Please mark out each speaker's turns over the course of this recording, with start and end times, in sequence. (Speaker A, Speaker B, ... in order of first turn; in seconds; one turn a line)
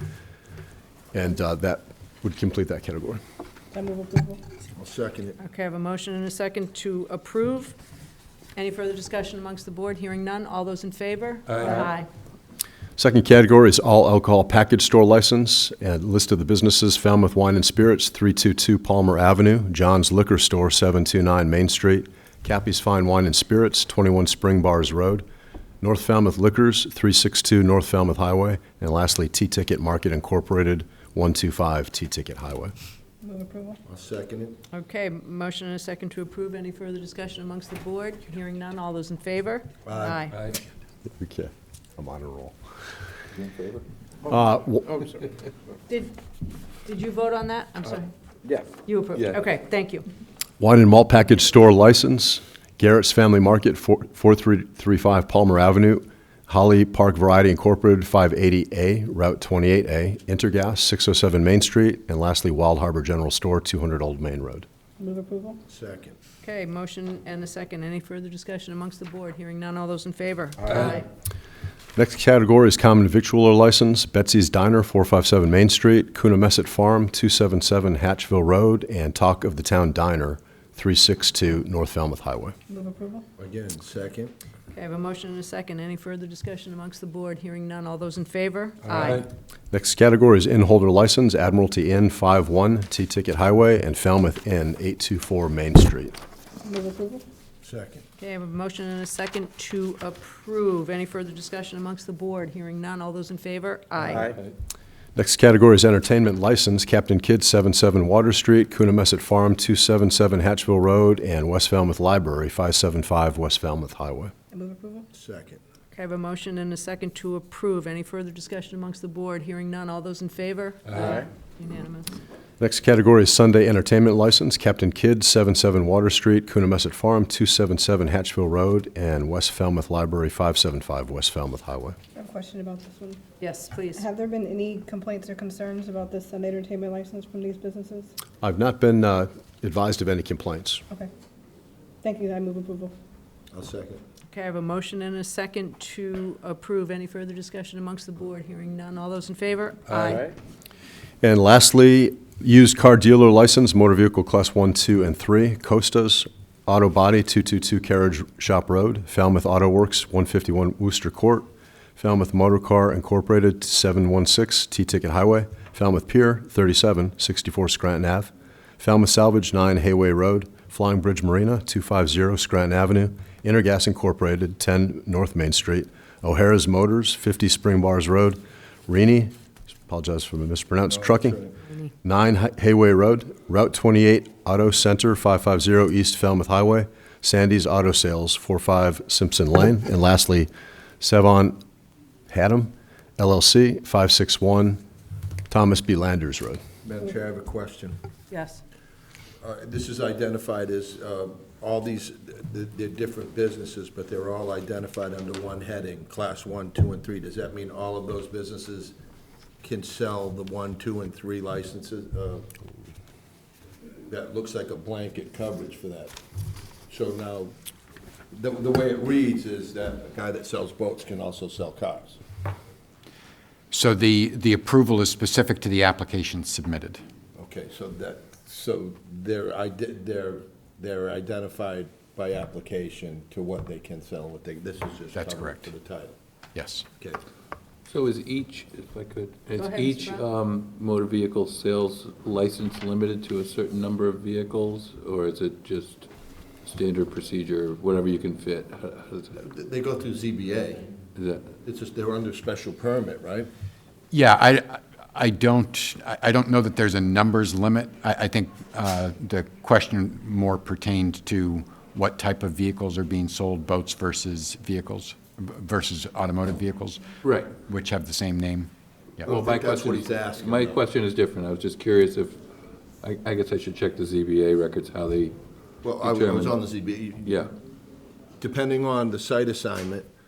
Speaker A: 1.1-3.2
Speaker B: 3.7-4.4
Speaker C: 4.8-5.4
Speaker D: 5.4-7.8
Speaker D: 8.6-12.1
Speaker A: 13.0-25.2
Speaker A: 25.8-32.7
Speaker B: 33.2-33.8
Speaker C: 33.9-34.6
Speaker D: 34.7-40.5
Speaker C: 39.9-40.2
Speaker A: 41.2-42.6
Speaker A: 44.3-45.1
Speaker D: 45.9-46.1
Speaker D: 46.8-48.1
Speaker D: 48.9-50.1
Speaker A: 50.6-64.7
Speaker B: 65.0-65.6
Speaker C: 65.7-66.2
Speaker D: 66.4-71.1
Speaker A: 72.0-82.5
Speaker B: 82.7-83.2
Speaker C: 83.4-84.3
Speaker D: 84.7-89.3
Speaker A: 89.7-96.1
Speaker B: 96.6-97.2
Speaker C: 97.6-98.0
Speaker D: 98.2-104.3
Speaker A: 105.2-114.3
Speaker B: 114.5-115.1
Speaker C: 115.2-115.6
Speaker D: 115.9-122.2
Speaker A: 122.6-132.0
Speaker B: 132.2-133.2
Speaker D: 133.4-134.0
Speaker B: 133.9-138.1
Speaker A: 138.4-140.8
Speaker B: 142.0-142.9
Speaker C: 143.5-144.0
Speaker D: 144.3-150.3
Speaker A: 151.2-179.3
Speaker A: 179.9-181.5
Speaker C: 180.9-181.5
Speaker A: 182.0-190.5
Speaker A: 191.0-191.6
Speaker A: 192.3-194.8
Speaker A: 195.5-196.6
Speaker C: 196.8-198.0
Speaker D: 198.3-198.6
Speaker C: 199.4-209.0
Speaker C: 209.6-212.5
Speaker C: 214.1-216.2
Speaker C: 216.9-217.5
Speaker C: 218.3-222.2
Speaker E: 223.7-227.0
Speaker C: 227.4-236.2
Speaker E: 235.2-235.7
Speaker E: 236.6-236.9
Speaker F: 237.9-246.1
Speaker D: 239.6-240.2
Speaker F: 246.7-249.4
Speaker C: 249.4-250.9
Speaker F: 251.2-251.5
Speaker C: 251.7-253.5
Speaker E: 254.1-269.3
Speaker F: 267.2-267.6
Speaker C: 269.2-270.8
Speaker F: 269.3-272.4
Speaker F: 273.0-275.4
Speaker C: 275.8-277.4
Speaker F: 276.0-276.6
Speaker F: 277.2-277.5
Speaker C: 278.4-280.1